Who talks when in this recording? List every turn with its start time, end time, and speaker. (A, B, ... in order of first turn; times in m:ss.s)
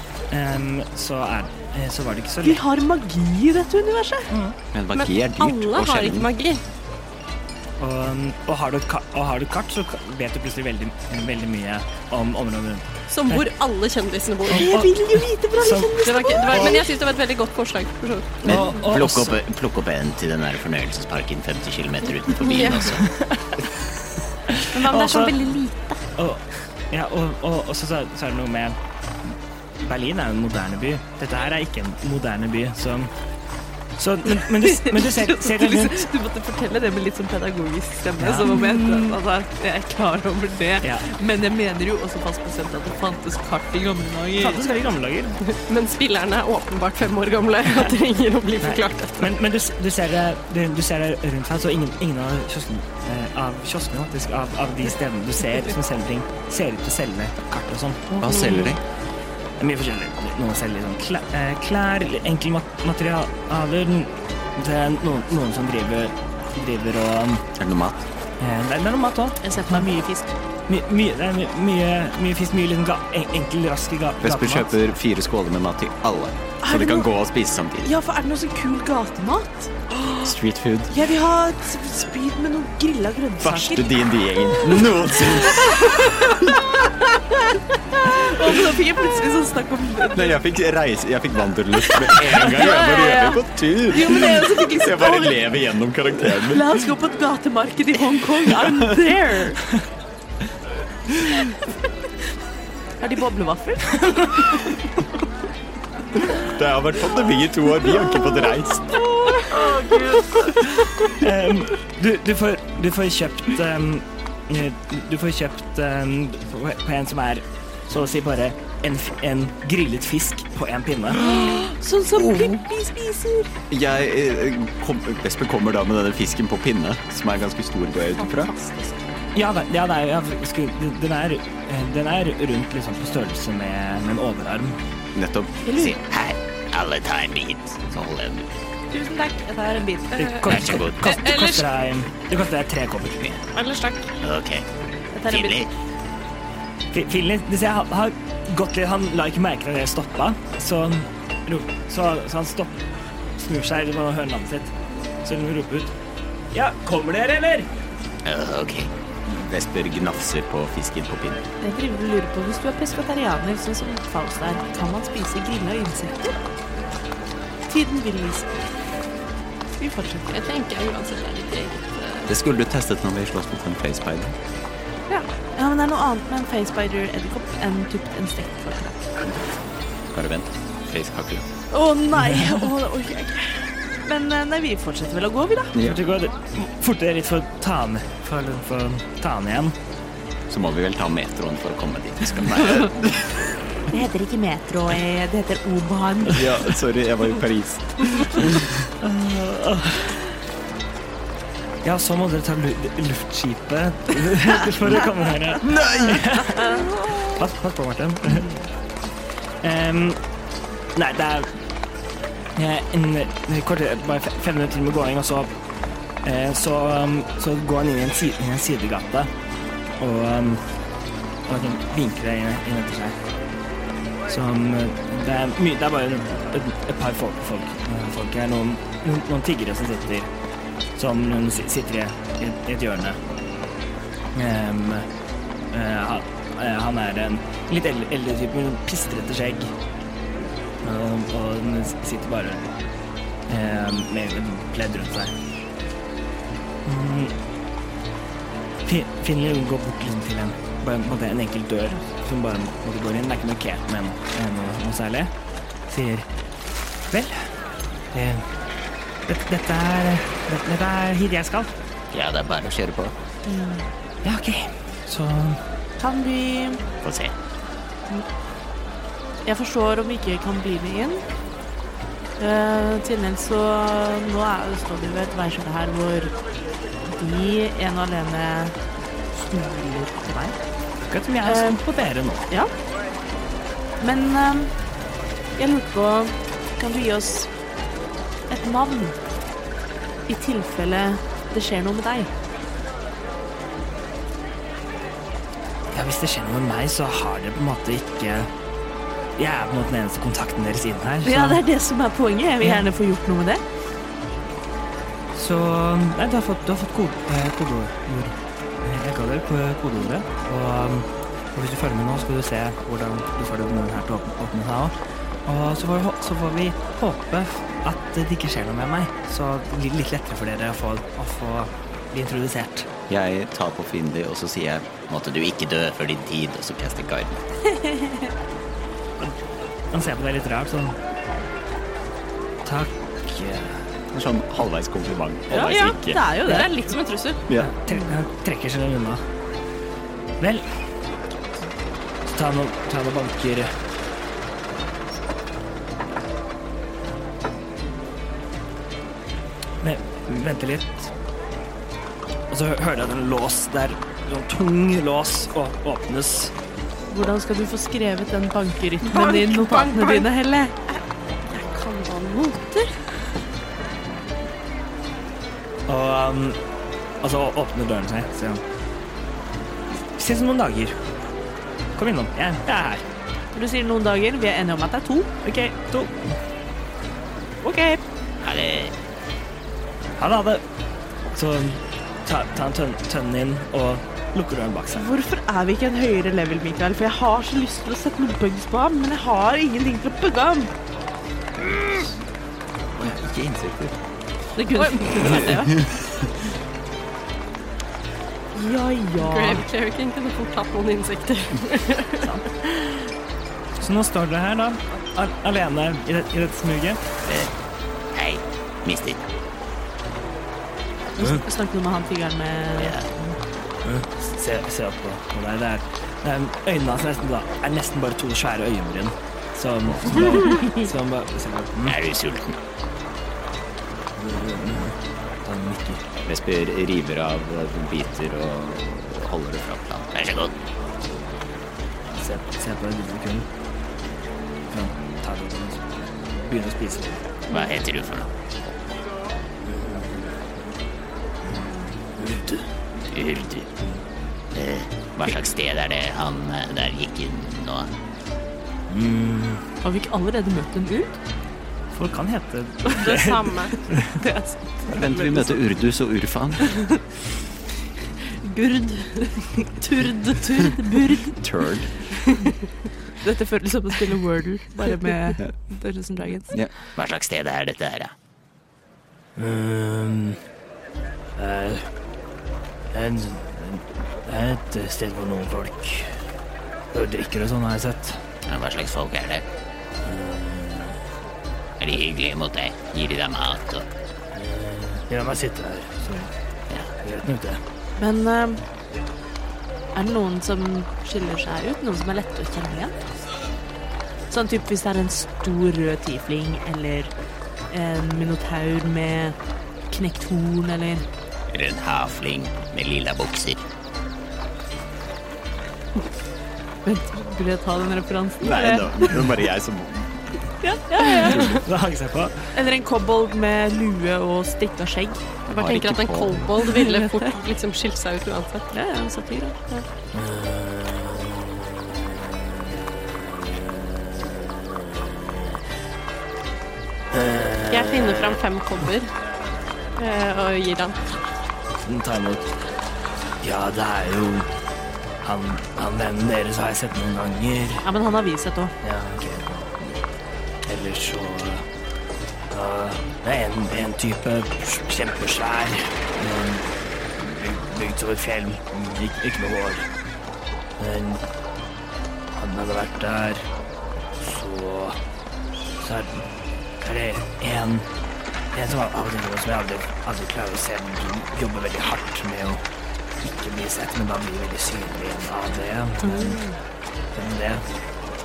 0:00.3-0:02.6 A
0:02.4-0:04.3 B
0:04.3-0:04.6 A
0:04.7-0:06.3 C
0:04.9-0:06.6 D
0:07.8-0:13.4 A
0:13.1-0:14.8 D
0:14.5-0:16.8 A
0:14.5-0:16.8 B
0:16.0-0:18.6 D
0:18.4-0:23.0 E
0:18.4-0:19.4 A
0:22.4-0:23.0 D
0:22.9-0:23.5 A
0:24.5-0:25.3 A
0:24.8-0:25.7 B
0:24.8-0:25.7 D
0:26.2-0:28.8 A
0:29.8-0:33.1 A
0:34.0-0:36.1 A
0:34.4-0:44.6 B
0:38.2-0:39.2 A
0:40.8-0:41.0 A
0:44.4-0:45.4 A
0:45.4-0:49.3 D
0:48.6-0:58.3 A
0:58.2-0:58.8 C
0:58.2-0:58.7 D
0:59.6-1:07.5 A
1:07.6-1:08.0 C
1:08.4-1:09.9 A
1:09.4-1:10.3 B
1:10.7-1:14.8 A
1:14.2-1:17.9 C
1:16.6-1:17.1 B
1:17.8-1:20.4 B
1:20.2-1:20.9 C
1:20.9-1:24.0 B
1:23.4-1:26.7 C
1:25.5-1:25.8 B
1:28.0-1:30.4 B
1:30.1-1:36.8 C
1:31.9-1:35.5 B
1:36.3-1:39.6 B
1:43.0-1:44.7 B
1:46.4-1:49.0 C
1:49.4-1:50.5 B
1:51.1-2:01.6 A
2:01.1-2:03.5 B
2:03.7-2:08.5 C
2:08.4-2:08.8 D
2:09.3-2:14.8 A
2:15.1-2:15.8 C
2:15.7-2:16.0 B
2:15.7-2:18.5 E
2:18.9-2:20.4 B
2:20.1-2:21.6 D
2:20.3-2:23.2 A
2:20.4-2:21.3 E
2:23.5-2:24.1 D
2:24.2-2:24.6 E
2:25.1-2:25.6 B
2:25.2-2:25.7 E
2:26.9-2:35.9 A
2:36.5-2:37.7 A
2:38.2-2:41.4 E
2:41.6-2:46.4 B
2:47.7-2:48.7 B
2:49.8-2:50.3 B
2:50.3-2:52.3 D
2:52.3-2:54.3 C
2:55.1-2:59.0 B
3:00.1-3:01.4 C
3:01.7-3:05.8 B
3:05.7-3:06.0 C
3:05.8-3:09.7 A
3:10.5-3:13.5 C
3:13.9-3:16.5 B
3:16.3-3:18.7 C
3:19.0-3:20.2 A
3:21.8-3:28.5 A
3:26.6-3:26.9 B
3:29.6-3:30.2 A
3:30.9-3:31.5 A
3:32.6-3:35.5 A
3:36.2-3:39.3 A
3:40.0-3:40.6 A
3:41.5-3:43.2 A
3:44.3-3:50.3 A
3:51.0-3:53.2 A
3:54.3-3:55.1 A
3:55.7-3:59.7 A
4:00.8-4:02.7 A
4:03.5-4:05.3 A
4:06.8-4:07.3 A
4:08.8-4:15.3 A
4:15.9-4:16.3 A
4:17.1-4:17.5 A
4:18.1-4:18.4 A
4:19.3-4:21.7 A
4:22.1-4:23.1 E
4:23.4-4:23.9 B
4:24.2-4:25.6 A
4:26.0-4:26.8 B
4:27.0-4:27.3 E
4:29.4-4:31.2 B
4:32.4-4:36.3 B
4:37.0-4:38.8 B
4:39.3-4:40.6 B
4:41.1-4:42.5 A
4:41.4-4:41.8 B
4:44.0-4:44.7 B
4:45.6-4:47.5 B
4:48.5-4:49.2 B
4:50.3-4:52.3 B
4:55.9-4:58.5 A
4:59.4-5:01.6 A
5:01.2-5:03.6 B
5:02.6-5:02.9 A
5:05.3-5:14.9 A
5:15.4-5:22.9 A
5:23.1-5:25.0 C
5:25.0-5:27.4 E
5:27.8-5:28.3 B
5:29.9-5:31.0 A
5:32.6-5:33.8 A
5:34.1-5:36.3 C
5:35.5-5:36.9 B
5:36.4-5:37.4 D
5:37.6-5:39.2 A
5:40.4-5:40.6 A
5:42.2-5:43.7 A
5:49.8-5:51.1 A
5:52.5-5:56.5 A
5:57.1-6:00.8 B
5:59.0-6:00.3 D
6:01.5-6:02.9 D
6:05.9-6:06.6 A
6:07.2-6:08.6 A
6:10.1-6:11.0 A
6:12.0-6:13.0 A
6:13.5-6:15.8 B
6:15.8-6:16.3 A
6:17.6-6:18.0 B
6:18.4-6:18.9 E
6:20.2-6:20.6 A
6:21.3-6:25.1 A
6:24.9-6:30.7 B
6:33.0-6:34.0 C
6:34.6-6:35.8 B
6:34.7-6:35.4 D
6:35.2-6:36.0 C
6:38.5-6:39.7 B
6:39.2-6:42.3 D
6:42.2-6:43.0 B
6:43.8-6:47.0 A
6:47.2-6:47.5 E
6:48.1-6:49.2 E
6:51.2-6:53.3 B
6:52.8-6:53.1 E
6:53.8-7:02.0 A
7:01.8-7:02.6 E
7:04.2-7:06.0 A
7:06.2-7:10.1 C
7:10.1-7:10.5 E
7:12.1-7:13.5 A
7:14.7-7:17.2 A
7:17.5-7:18.3 E
7:19.6-7:20.4 A
7:21.4-7:22.6 A
7:23.1-7:23.7 E
7:24.5-7:27.9 E
7:28.9-7:29.6 A
7:29.8-7:31.1 B
7:31.9-7:34.1 A
7:32.9-7:33.8 D
7:33.9-7:35.6 B
7:34.9-7:36.8 C
7:38.5-7:39.3 D
7:39.8-7:40.6 D
7:39.8-7:41.4 B
7:41.4-7:41.9 C
7:43.2-7:46.6 B
7:47.0-7:48.1 E
7:49.4-7:50.4 A
7:51.4-7:51.9 A
7:52.9-7:56.1 A
7:56.9-7:58.2 A
7:58.5-7:59.4 E
8:00.0-8:01.0 A
8:01.8-8:03.9 E
8:04.3-8:06.3 A
8:07.0-8:07.6 A
8:08.0-8:08.6 B
8:09.9-8:12.9 B
8:14.3-8:17.1 B
8:17.7-8:19.4 B
8:19.9-8:21.0 B
8:21.5-8:23.6 E
8:26.8-8:29.2 B
8:28.4-8:30.4 C
8:30.6-8:31.6 B
8:31.2-8:31.6 C
8:31.4-8:32.3 A
8:32.5-8:35.3 B
8:35.5-8:36.6 C
8:35.5-8:38.7 D
8:36.6-8:37.3 B
8:38.7-8:39.8 B
8:40.1-8:42.1 A
8:43.1-8:44.2 A
8:44.8-8:45.1 A
8:47.1-8:48.4 A
8:47.7-8:49.1 D
8:50.0-8:51.2 D
8:51.8-8:52.5 A
8:53.4-8:54.5 A
8:55.2-8:57.8 A
8:57.8-8:58.7 B
8:58.8-9:00.0 A
9:00.6-9:01.6 A
9:02.5-9:09.9 A
9:10.8-9:11.2 A
9:12.3-9:13.5 A
9:14.2-9:15.0 A
9:15.8-9:16.2 A
9:16.8-9:17.9 A
9:18.5-9:22.6 A
9:23.2-9:26.4 A
9:26.0-9:26.6 B
9:27.1-9:27.6 A